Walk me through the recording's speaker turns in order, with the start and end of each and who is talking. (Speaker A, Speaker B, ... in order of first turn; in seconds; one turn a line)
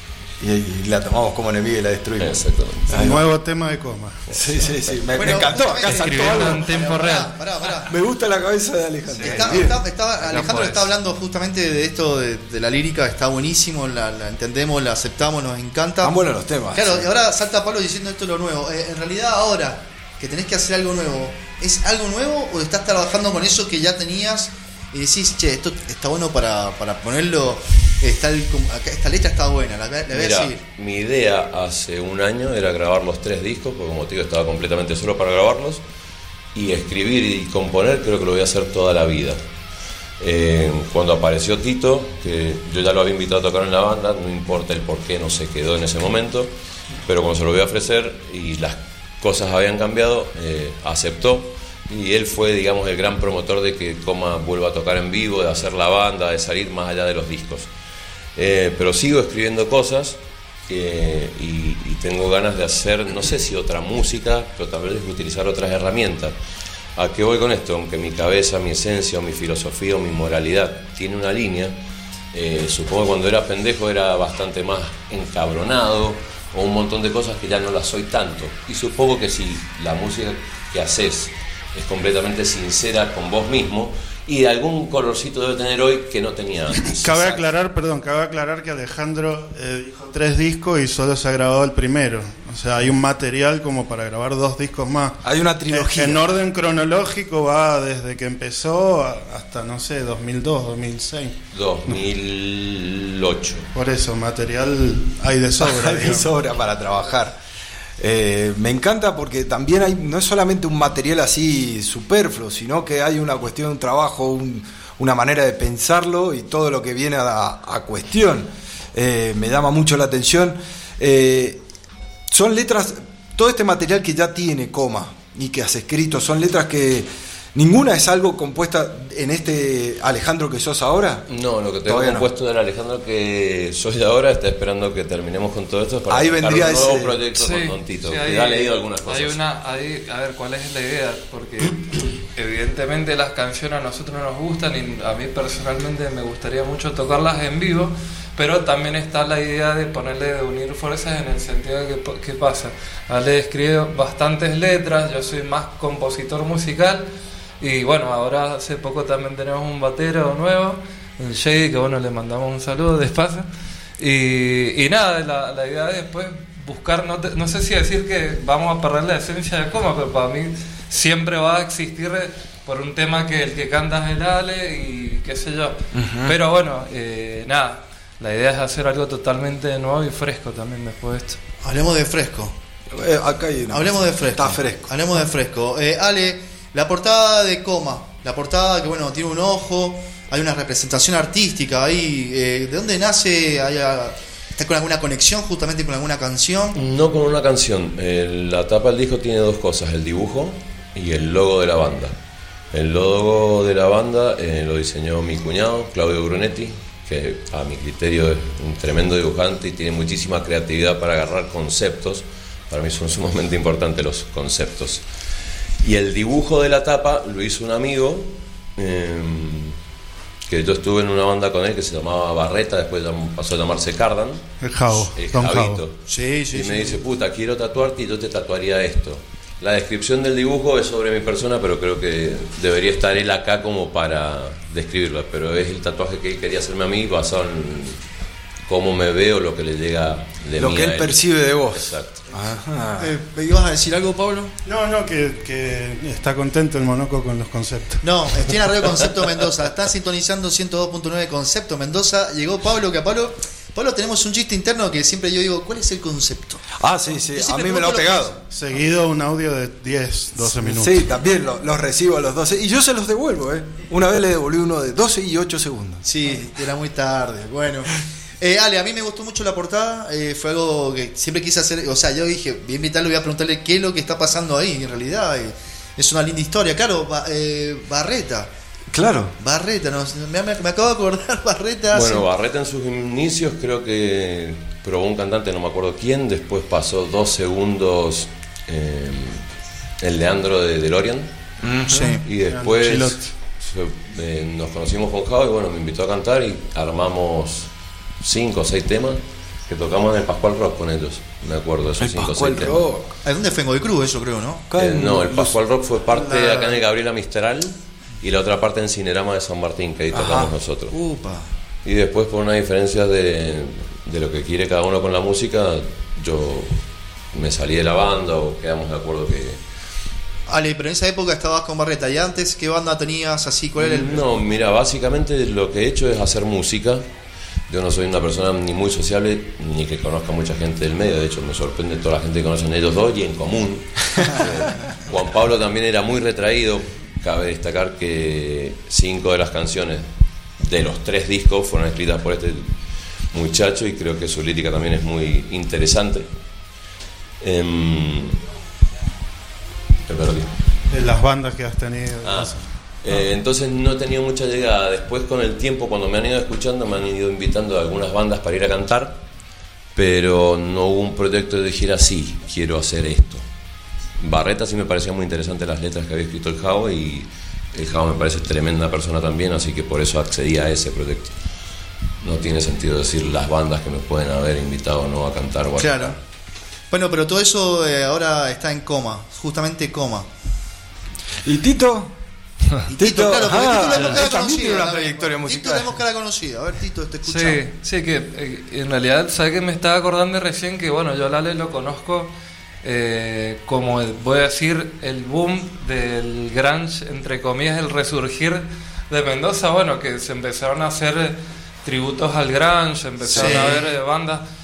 Speaker A: 0.4-3.2
Speaker B: 2.2-3.1
Speaker C: 2.9-4.4
Speaker A: 4.3-6.8
Speaker D: 5.1-7.9
Speaker E: 5.9-7.3
Speaker A: 7.9-9.8
Speaker D: 9.2-16.2
Speaker E: 9.2-9.6
Speaker E: 10.2-10.9
Speaker A: 16.0-17.1
Speaker D: 16.7-30.6
Speaker B: 30.1-35.8
Speaker B: 36.5-39.4
Speaker B: 40.2-46.5
Speaker B: 47.1-57.7
Speaker B: 58.4-66.3
Speaker B: 67.0-71.8
Speaker B: 72.3-87.0
Speaker C: 86.9-102.0
Speaker A: 87.0-87.4
Speaker A: 95.2-96.3
Speaker B: 101.5-103.7
Speaker C: 103.7-106.3
Speaker A: 105.6-107.3
Speaker A: 108.0-121.6
Speaker A: 122.3-131.3
Speaker B: 131.3-139.4
Speaker A: 131.8-132.3
Speaker A: 136.1-137.2
Speaker E: 137.3-157.1
Speaker E: 157.6-163.5
Speaker E: 164.0-181.4
Speaker A: 175.9-176.4
Speaker D: 181.6-182.5
Speaker A: 182.9-184.9
Speaker D: 183.7-196.8
Speaker B: 196.8-202.2
Speaker B: 202.7-215.0
Speaker B: 215.8-219.8
Speaker B: 220.5-226.0
Speaker C: 224.6-225.8
Speaker D: 226.1-227.0
Speaker B: 226.5-238.0
Speaker B: 238.7-242.2
Speaker A: 240.6-243.1
Speaker D: 243.0-244.6
Speaker C: 244.7-248.6
Speaker D: 248.0-256.7
Speaker A: 256.8-258.4
Speaker D: 257.3-258.4
Speaker C: 258.5-261.0
Speaker A: 260.4-266.0
Speaker D: 266.1-278.5
Speaker A: 278.9-279.3
Speaker D: 279.4-282.3
Speaker B: 281.9-289.4
Speaker B: 290.0-291.3
Speaker A: 291.6-292.1
Speaker D: 291.9-292.2
Speaker B: 292.2-297.7
Speaker C: 292.4-293.2
Speaker B: 298.2-302.8
Speaker A: 302.0-303.1
Speaker D: 303.2-304.7
Speaker A: 304.7-305.5
Speaker B: 304.8-310.9
Speaker C: 306.1-306.8
Speaker A: 310.1-310.5
Speaker D: 310.9-311.5
Speaker B: 311.9-316.8
Speaker B: 317.3-319.6
Speaker D: 320.5-324.3
Speaker B: 323.8-327.1
Speaker B: 327.7-340.1
Speaker B: 340.6-342.8
Speaker B: 343.3-346.3
Speaker B: 347.4-348.4
Speaker B: 350.1-350.5
Speaker C: 350.9-352.6
Speaker B: 352.2-359.2
Speaker B: 359.9-363.4
Speaker B: 364.2-371.3
Speaker B: 372.2-376.2
Speaker D: 375.8-376.2
Speaker D: 376.9-380.3
Speaker A: 381.4-382.1
Speaker D: 382.9-387.6
Speaker A: 383.0-385.9
Speaker E: 387.2-404.4
Speaker A: 403.2-403.8
Speaker D: 403.4-403.9